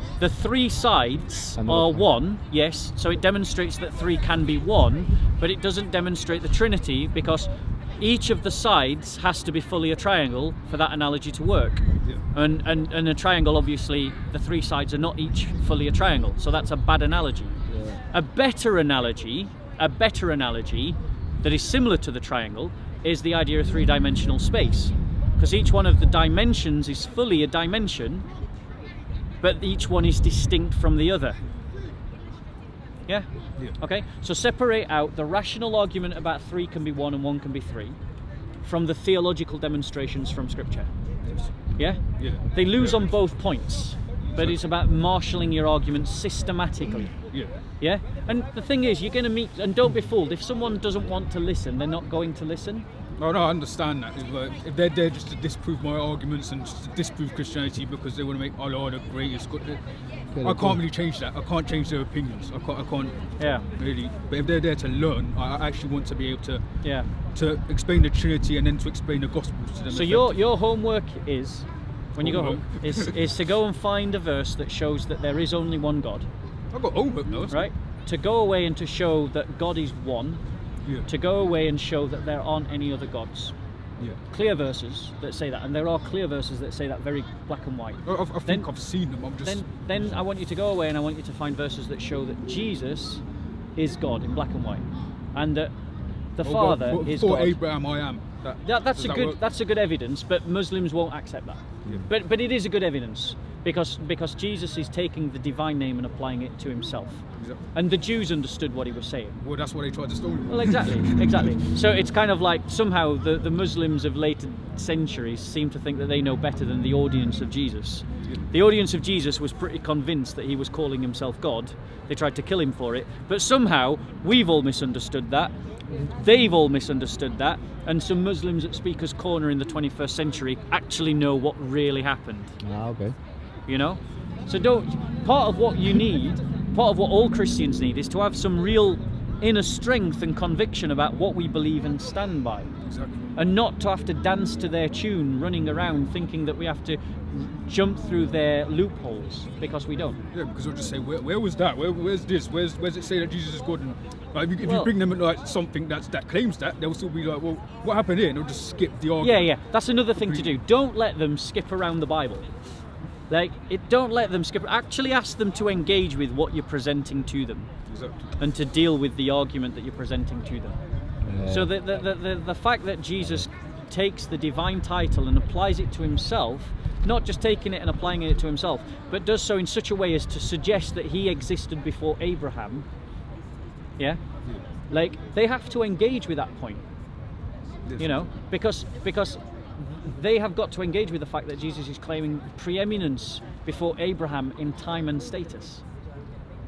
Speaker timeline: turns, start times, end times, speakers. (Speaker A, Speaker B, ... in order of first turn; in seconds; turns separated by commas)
Speaker A: 0.2-17.6, Speaker B: 1.6-2.1, Speaker B: 17.7-18.0, Speaker A: 18.1-28.3, Speaker A: 29.4-31.4, Speaker A: 33.1-38.0, Speaker A: 38.6-40.9, Speaker C: 41.3-41.5, Speaker A: 41.8-47.1, Speaker C: 42.2-43.1, Speaker C: 44.4-44.7, Speaker C: 47.3-47.6, Speaker A: 47.8-52.9, Speaker C: 53.2-59.8, Speaker B: 60.3-60.8, Speaker C: 60.4-66.7, Speaker A: 63.4-63.6, Speaker A: 66.8-67.1, Speaker C: 67.3-70.4, Speaker A: 69.9-76.3, Speaker C: 72.2-73.1, Speaker C: 76.7-77.7, Speaker A: 77.5-80.4, Speaker A: 81.1-83.5, Speaker A: 84.3-88.7, Speaker C: 88.1-89.7, Speaker A: 89.4-93.2, Speaker A: 93.8-95.7, Speaker A: 96.4-97.6, Speaker C: 96.4-99.4, Speaker A: 98.6-109.4, Speaker C: 109.4-111.5, Speaker A: 110.5-132.6, Speaker B: 132.6-133.2, Speaker A: 133.7-142.7, Speaker C: 142.8-143.2, Speaker A: 143.4-150.2, Speaker C: 150.3-159.5, Speaker A: 154.6-154.9, Speaker A: 159.2-162.5, Speaker C: 160.2-160.6, Speaker A: 163.3-167.7, Speaker C: 167.9-168.3, Speaker A: 168.4-170.8, Speaker B: 171.2-171.7, Speaker A: 171.5-182.9, Speaker A: 184.9-186.8, Speaker C: 187.8-188.3, Speaker A: 188.0-195.8